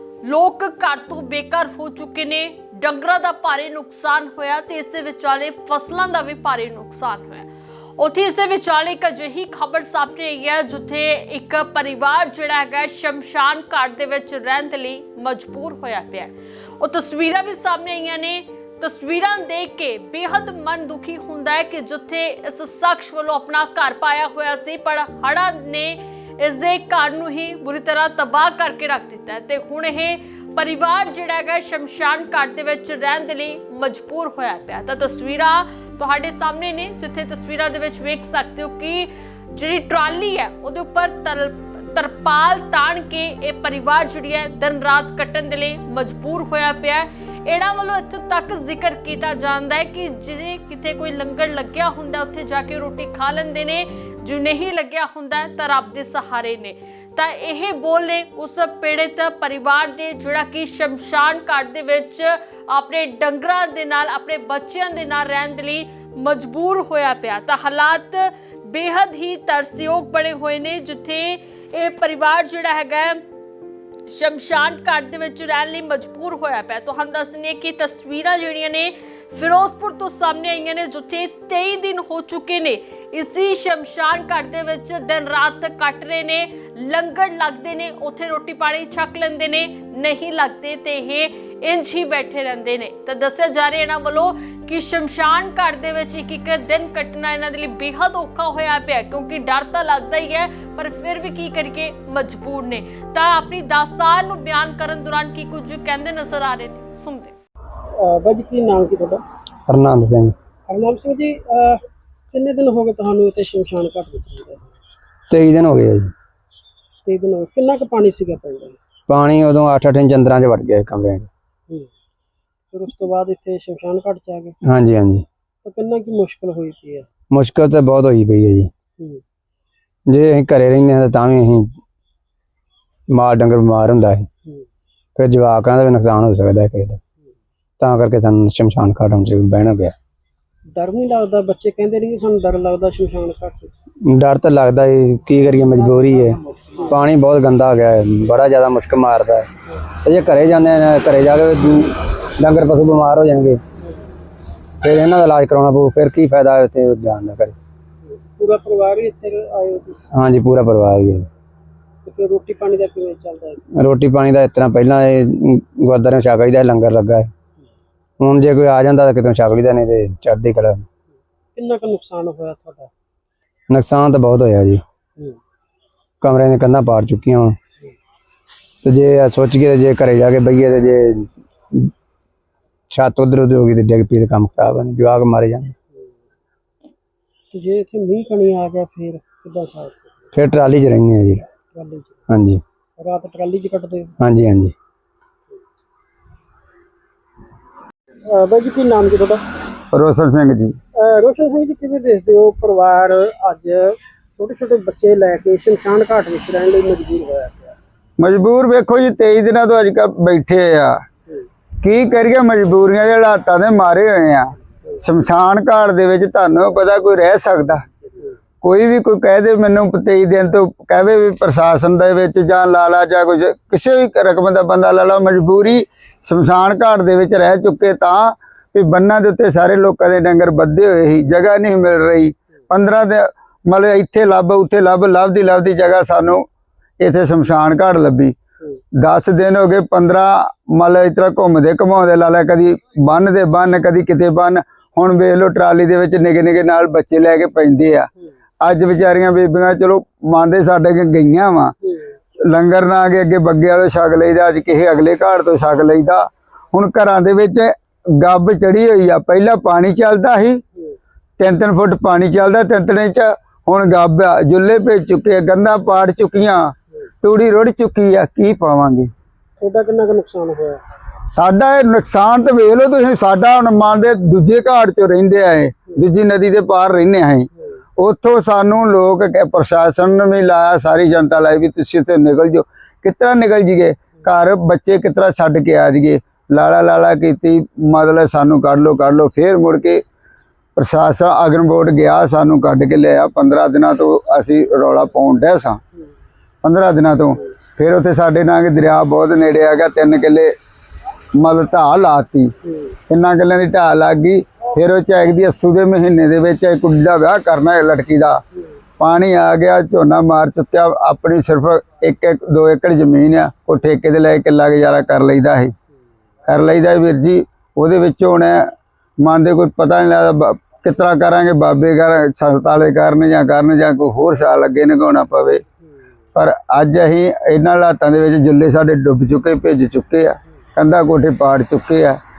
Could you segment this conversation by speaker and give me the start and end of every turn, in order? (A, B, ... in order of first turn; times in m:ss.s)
0:00.2-1:13.2 A
1:14.1-1:47.4 A
1:48.0-1:49.2 B
1:49.7-1:50.3 C
1:50.7-1:51.8 B
1:52.3-1:54.7 B
1:55.3-1:56.1 C
1:57.0-1:58.8 B
1:59.1-2:01.3 C
2:02.7-2:04.6 B
2:04.6-2:05.2 C
2:05.6-2:07.1 B
2:07.3-2:08.7 C
2:10.1-2:11.8 C
2:13.1-2:14.3 C
2:15.2-2:17.0 C
2:17.8-2:20.0 C
2:20.7-2:23.7 B
2:24.0-2:26.4 C
2:26.3-2:27.0 B
2:26.9-2:33.6 C
2:34.8-2:37.6 C
2:38.0-2:40.0 B
2:40.1-2:41.3 C
2:42.0-2:43.6 B
2:43.8-2:47.3 C
2:48.2-2:50.9 C
2:51.6-2:52.9 B
2:53.7-2:54.8 C
2:56.2-2:57.6 C
2:58.8-3:01.9 C
3:02.9-3:05.7 C
3:07.5-3:10.2 B
3:10.3-3:11.5 C
3:11.7-3:12.2 B
3:12.3-3:12.6 C
3:13.0-3:14.1 B
3:14.2-3:14.7 C
3:18.3-3:19.4 B
3:19.9-3:20.8 D
3:21.0-3:27.8 B
3:28.2-3:31.0 D
3:31.8-3:37.8 D
3:38.6-3:56.4 D
3:57.0-3:58.3 D
3:59.0-4:08.1 D
4:08.6-4:11.7 D
4:12.4-4:20.6 D
4:21.4-4:26.7 D
4:27.2-4:29.1 D
4:29.6-4:30.8 B
4:31.3-4:50.0 D
4:50.8-4:55.8 D
4:56.6-5:00.5 D
5:01.4-5:02.5 D
5:03.1-5:08.4 D
5:09.0-5:15.7 D
5:16.5-5:18.7 D
5:19.2-5:25.6 D
5:26.4-5:32.2 D